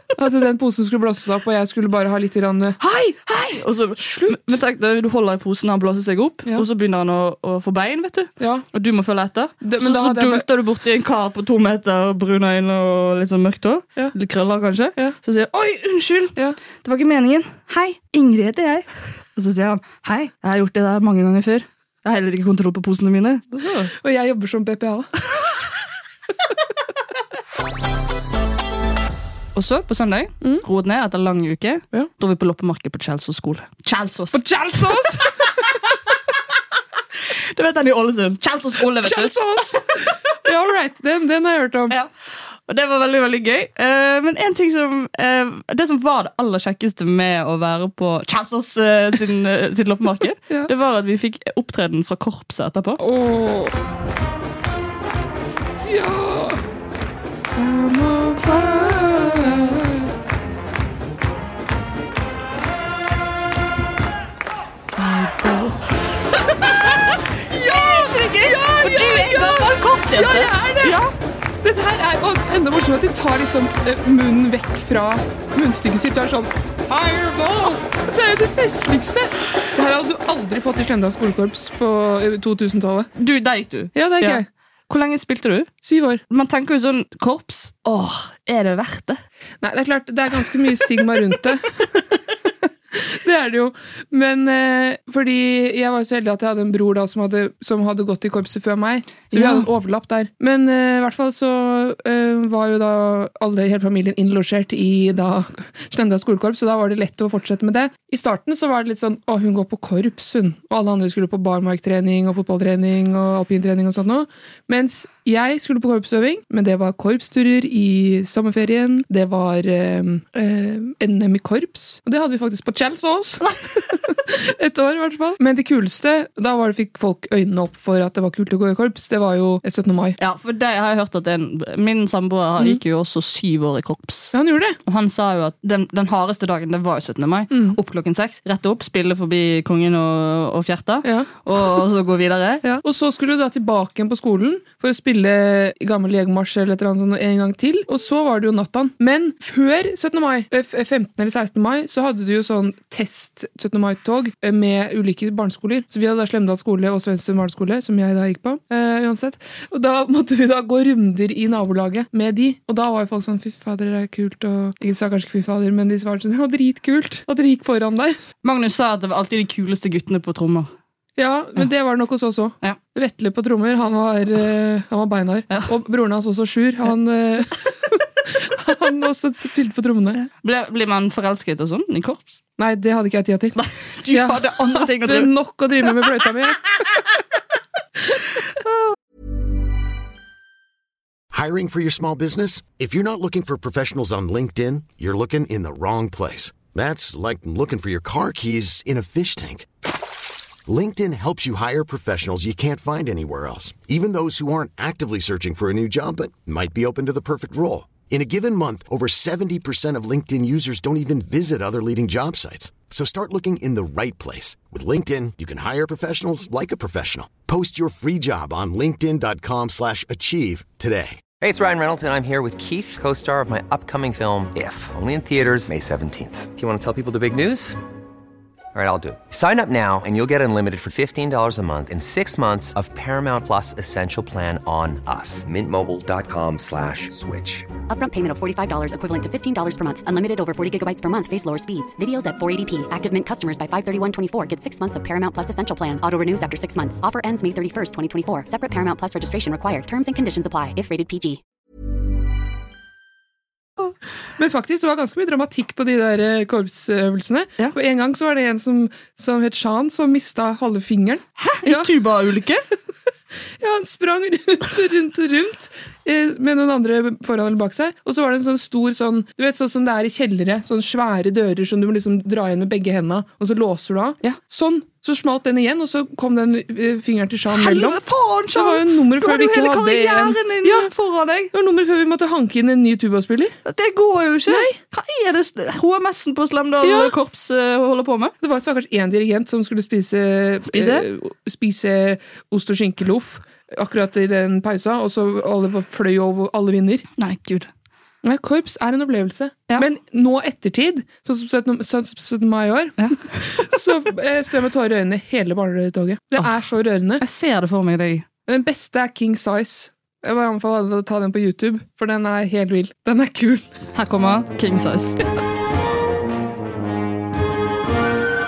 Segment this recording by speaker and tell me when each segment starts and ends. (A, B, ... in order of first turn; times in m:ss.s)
0:00.2-0:02.8 A
0:02.8-0:23.9 B
0:04.0-0:04.4 A
0:08.4-0:08.7 A
0:09.6-0:10.4 A
0:23.9-0:25.1 A
0:29.6-0:34.4 B
0:34.3-0:35.7 A
0:35.0-0:35.6 B
0:37.5-0:39.8 B
0:39.0-0:42.0 A
0:42.7-0:53.0 B
0:53.0-0:53.8 A
0:55.8-0:56.6 A
0:57.6-1:00.1 A
1:05.0-1:05.8 A
1:06.6-1:11.0 A
1:07.5-1:11.1 B
1:11.6-1:23.1 A
1:23.2-1:25.7 B
1:23.9-1:24.5 A
1:25.8-1:26.2 A
1:26.3-1:29.2 B
1:29.6-1:32.2 A
1:32.9-2:10.2 A
1:39.3-1:39.7 B
2:10.2-2:14.3 B
2:14.3-2:14.8 A
2:14.9-2:22.7 B
2:17.5-2:17.8 A
2:21.0-2:21.8 A
2:22.6-2:48.2 A
2:48.4-2:50.7 B
2:51.2-3:00.2 A
3:00.2-3:02.4 B
3:02.6-3:06.6 A
3:03.6-3:05.3 B
3:11.3-3:19.7 C
3:20.7-3:41.2 C
3:41.4-3:47.8 D
3:48.7-3:57.7 D
3:57.9-4:11.4 E
4:14.4-4:21.9 A
4:21.4-4:22.6 B
4:23.6-4:38.0 A
4:37.5-4:41.5 B
4:38.5-4:40.9 A
4:41.5-4:43.6 A
4:43.6-4:48.3 B
4:44.5-4:44.8 A
4:46.8-4:47.1 A
4:48.4-4:57.1 A
4:50.7-4:51.0 B
4:57.2-4:57.7 B
4:58.2-5:07.2 A
5:07.2-5:08.3 B
5:08.5-5:13.6 A
5:14.0-5:15.2 B